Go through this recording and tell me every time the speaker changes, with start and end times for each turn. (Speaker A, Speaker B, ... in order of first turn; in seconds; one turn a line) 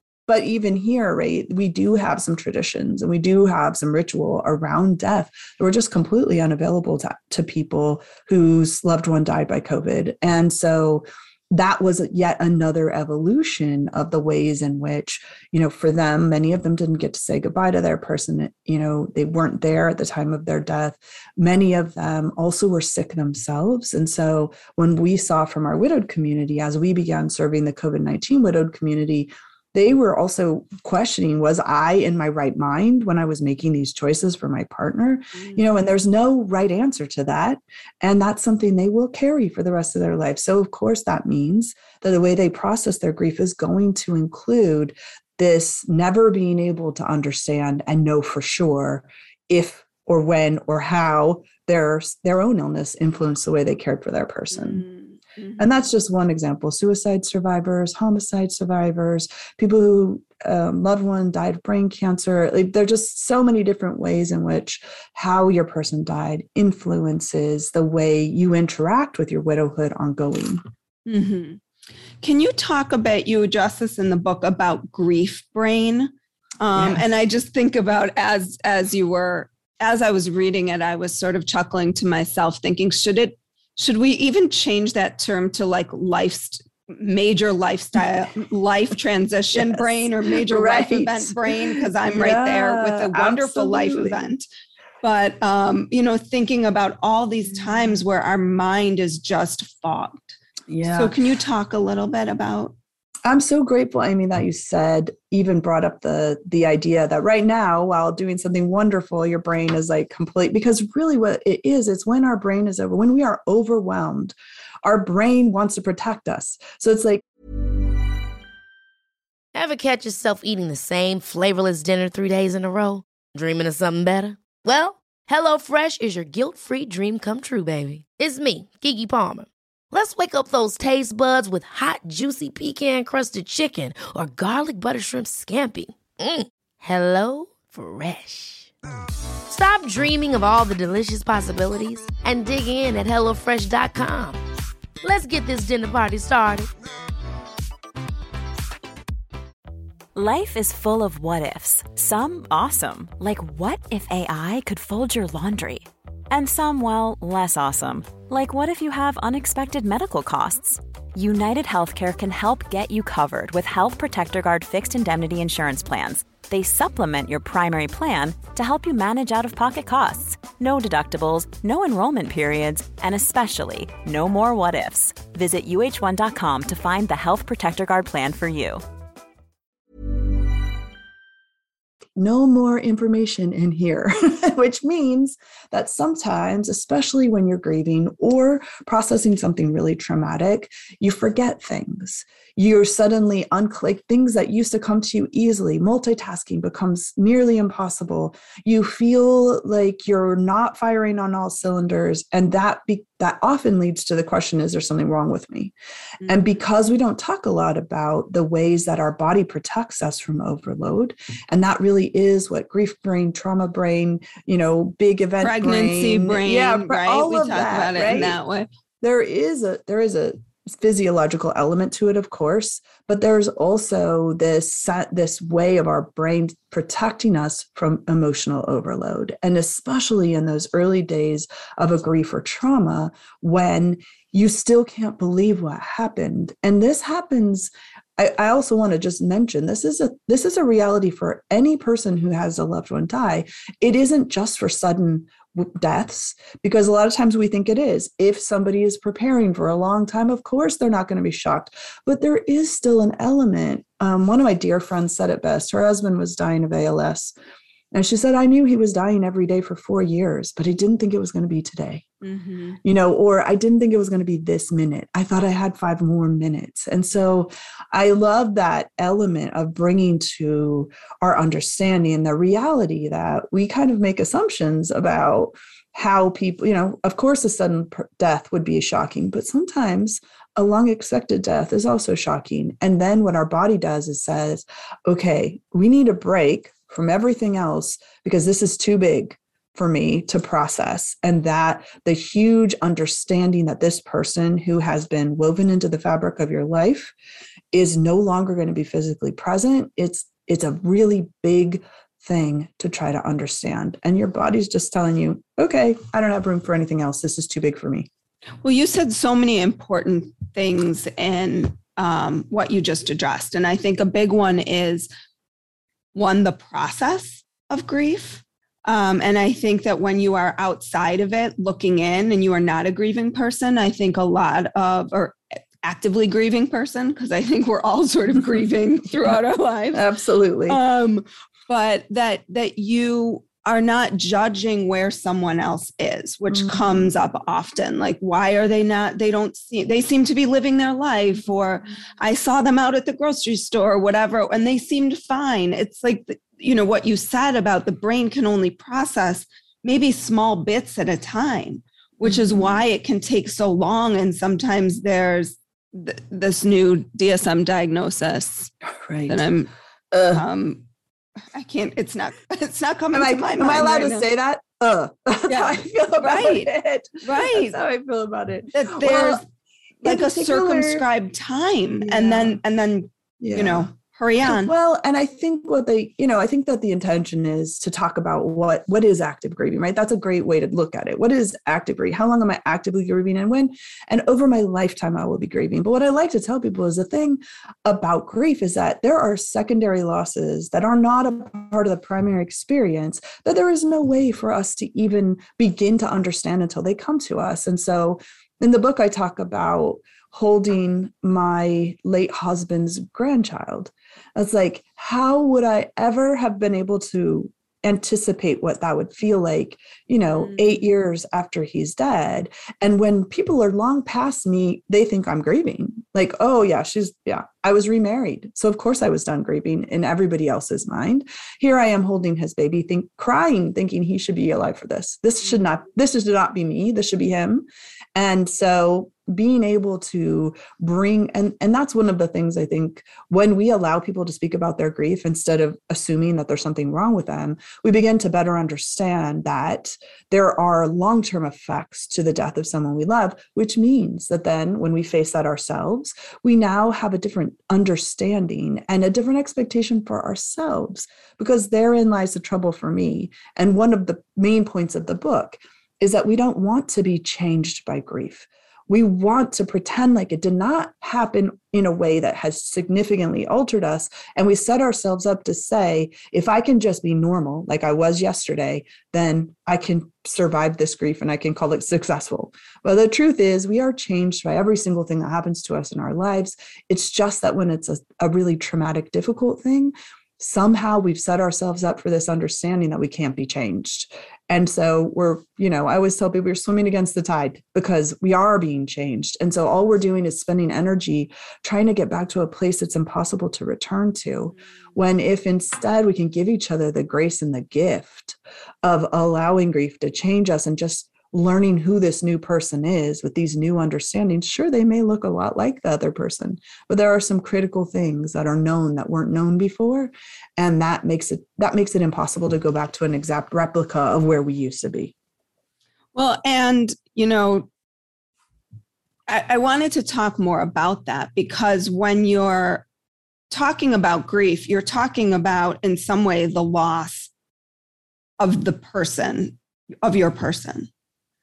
Speaker A: 0.3-54.9
Speaker B: 35.4-35.6
Speaker B: 54.5-55.6
Speaker A: 55.6-70.6
Speaker B: 71.1-71.6
Speaker B: 72.2-94.4
Speaker A: 76.8-77.0
Speaker A: 89.5-94.2
Speaker B: 95.0-102.8
Speaker A: 100.7-101.2
Speaker A: 103.2-117.2
Speaker C: 119.5-138.7
Speaker C: 139.5-144.4
Speaker C: 145.0-146.7
Speaker D: 150.2-178.8
Speaker A: 182.2-205.7
Speaker B: 206.2-206.5
Speaker A: 206.2-218.4
Speaker B: 215.4-218.7
Speaker A: 219.0-257.4
Speaker A: 257.9-262.1
Speaker B: 262.2-262.8
Speaker A: 262.8-297.1
Speaker A: 297.7-308.1
Speaker B: 308.6-315.1
Speaker B: 316.1-330.0
Speaker A: 329.9-330.8
Speaker B: 330.7-358.7
Speaker A: 336.5-337.1
Speaker A: 352.2-352.8
Speaker A: 359.0-359.4
Speaker B: 359.3-359.7
Speaker A: 360.1-360.4
Speaker B: 360.3-360.9
Speaker B: 361.5-364.3
Speaker A: 363.1-369.4
Speaker B: 365.5-366.7
Speaker B: 367.2-367.8
Speaker B: 368.7-369.4
Speaker A: 370.0-371.1
Speaker B: 370.0-374.7
Speaker A: 372.0-372.6
Speaker A: 373.4-373.9
Speaker A: 374.4-515.1
Speaker B: 516.1-517.7
Speaker B: 519.3-522.9
Speaker B: 523.5-527.3
Speaker B: 528.4-530.9